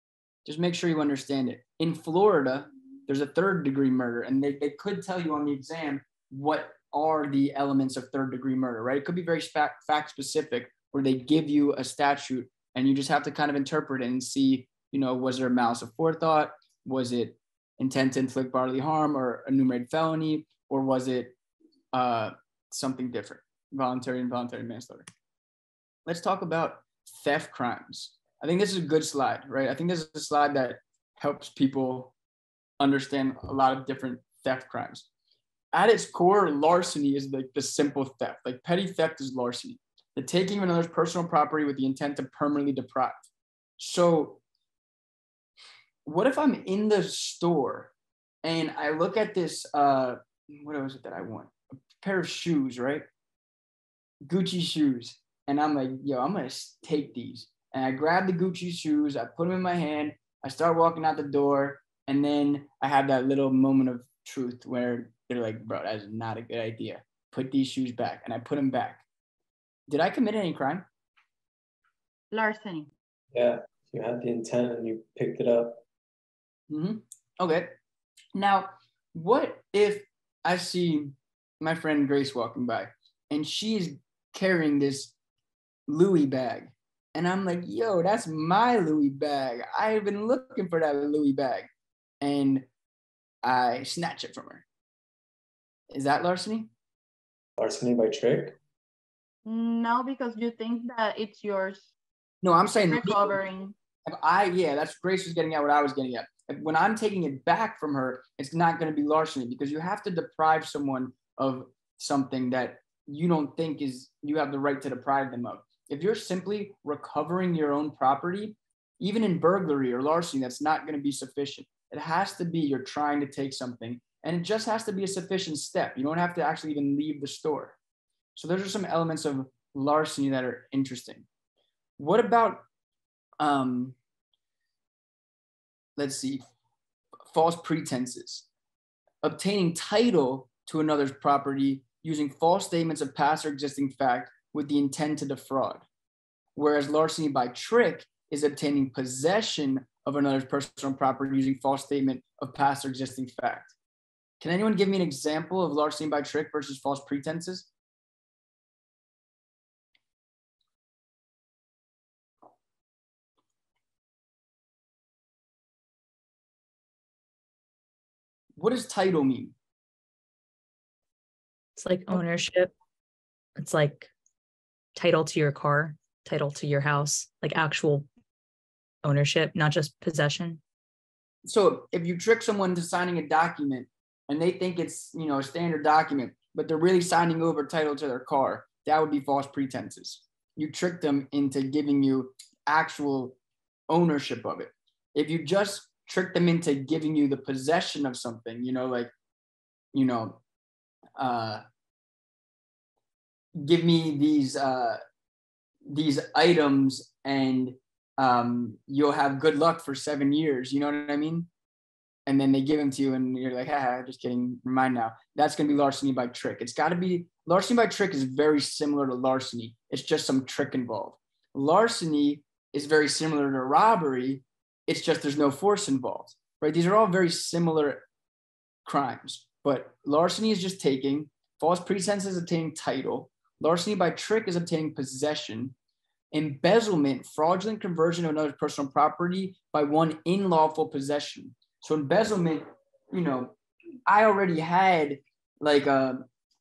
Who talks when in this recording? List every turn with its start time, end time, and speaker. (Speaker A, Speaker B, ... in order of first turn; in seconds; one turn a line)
Speaker A: 0.4-21.3
Speaker A: 21.9-25.1
Speaker A: 26.1-32.1
Speaker A: 32.8-35.0
Speaker A: 35.7-43.2
Speaker A: 43.8-44.4
Speaker A: 46.0-47.9
Speaker A: 48.4-53.0
Speaker A: 54.2-69.0
Speaker A: 69.9-70.8
Speaker B: 72.3-72.9
Speaker C: 73.3-75.8
Speaker A: 76.7-77.7
Speaker A: 78.3-85.1
Speaker A: 85.9-91.7
Speaker A: 92.2-92.7
Speaker A: 93.4-94.6
Speaker A: 95.9-96.7
Speaker C: 97.6-98.6
Speaker B: 99.4-101.9
Speaker A: 102.4-103.4
Speaker B: 102.9-103.7
Speaker A: 104.0-127.8
Speaker A: 128.3-131.2
Speaker A: 132.0-132.6
Speaker A: 133.4-133.9
Speaker A: 135.9-136.4
Speaker A: 137.3-138.4
Speaker A: 139.2-145.8
Speaker A: 146.6-153.7
Speaker A: 154.4-157.7
Speaker A: 168.6-169.5
Speaker D: 171.8-172.7
Speaker D: 173.6-174.1
Speaker D: 174.9-178.1
Speaker D: 179.0-180.6
Speaker A: 181.4-193.4
Speaker A: 193.9-199.1
Speaker A: 199.9-200.4
Speaker A: 201.2-201.6
Speaker A: 203.6-205.0
Speaker A: 205.8-211.5
Speaker A: 212.3-228.0
Speaker A: 228.8-235.7
Speaker A: 236.3-243.5
Speaker A: 244.1-246.2